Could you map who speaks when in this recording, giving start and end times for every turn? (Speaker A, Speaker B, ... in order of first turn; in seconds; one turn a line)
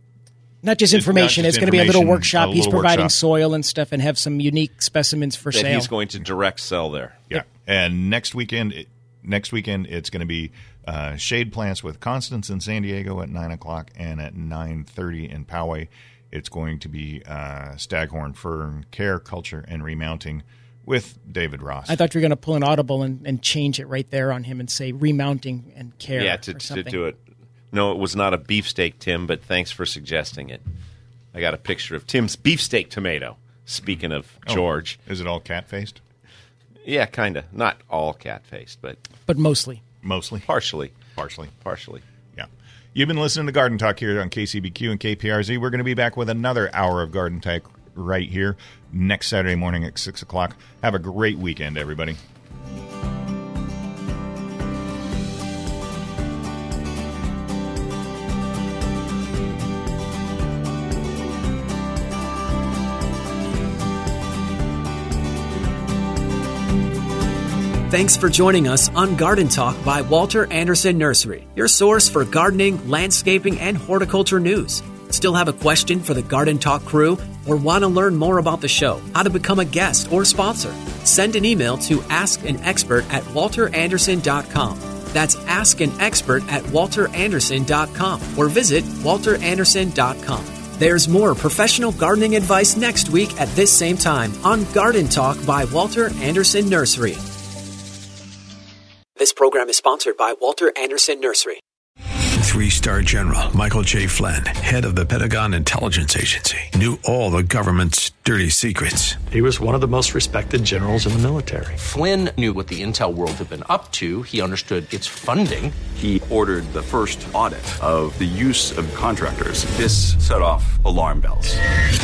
Speaker A: 0.6-5.9
Speaker B: 0.9-3.1
Speaker C: 5.5-7.2
Speaker B: 7.3-22.0
Speaker A: 21.9-27.0
Speaker C: 26.2-27.2
Speaker C: 27.7-30.6
Speaker C: 31.3-35.0
Speaker B: 34.5-36.0
Speaker C: 36.8-39.0
Speaker A: 39.3-39.8
Speaker B: 40.0-40.5
Speaker C: 40.5-40.9
Speaker B: 41.1-41.5
Speaker C: 41.6-42.0
Speaker B: 42.3-52.2
Speaker D: 67.9-97.2
Speaker D: 99.2-101.6
Speaker E: 102.4-109.2
Speaker F: 109.3-111.8
Speaker G: 111.8-115.8
Speaker H: 115.9-121.6